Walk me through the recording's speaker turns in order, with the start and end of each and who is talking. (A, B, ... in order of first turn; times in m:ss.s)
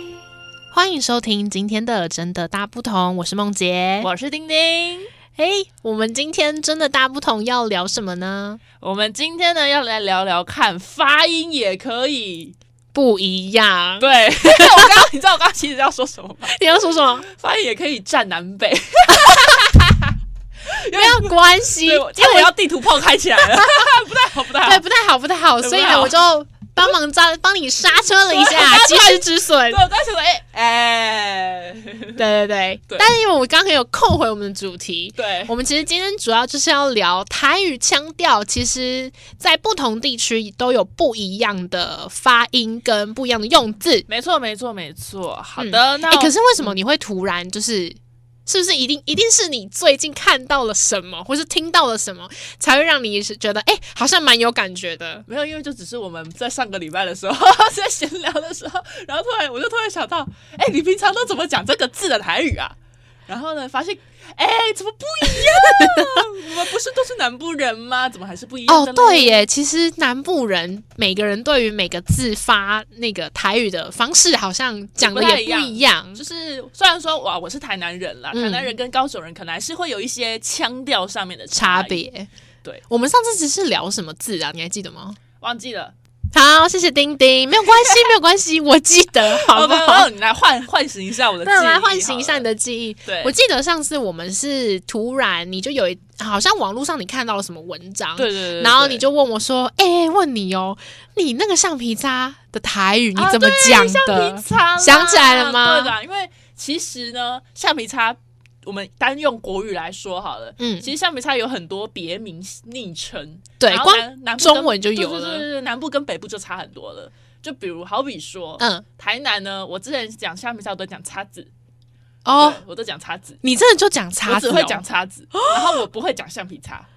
0:00.7-0:04.1 A
0:04.0-0:05.1 B
0:05.4-0:08.6 A
0:08.8-0:12.6 B
0:12.9-0:15.0 A
0:14.0-0:16.6 B
0:16.4-0:17.2 A
0:17.3-0:20.1 B
0:19.1-0:19.6 A
0:20.7-0:24.8 B
0:20.9-0:22.6 A
0:23.4-0:23.9 A
0:24.6-0:29.8 A
0:25.6-0:26.2 B
0:28.3-0:32.2 B
0:32.2-0:44.1 A
0:35.2-0:35.5 B
0:44.1-0:46.8 B
0:45.6-0:55.3 A
0:55.3-1:09.5 B
1:05.6-1:06.0 A
1:08.7-1:16.2 A
1:15.0-1:22.0 B
1:18.3-1:18.8 A
1:21.5-1:22.3 A
1:22.9-1:25.2 A
1:25.4-1:25.9 B
1:26.3-1:30.1 A
1:27.6-1:28.1 B
1:29.2-1:32.5 B
1:31.4-1:45.9 A
1:33.0-1:33.3 B
1:38.2-1:39.0 B
1:43.1-2:01.5 B
1:50.6-1:50.9 A
1:53.6-1:55.5 A
1:58.6-1:58.8 A
2:02.2-2:02.6 A
2:02.4-2:03.4 B
2:03.4-2:05.8 A
2:04.2-2:06.9 B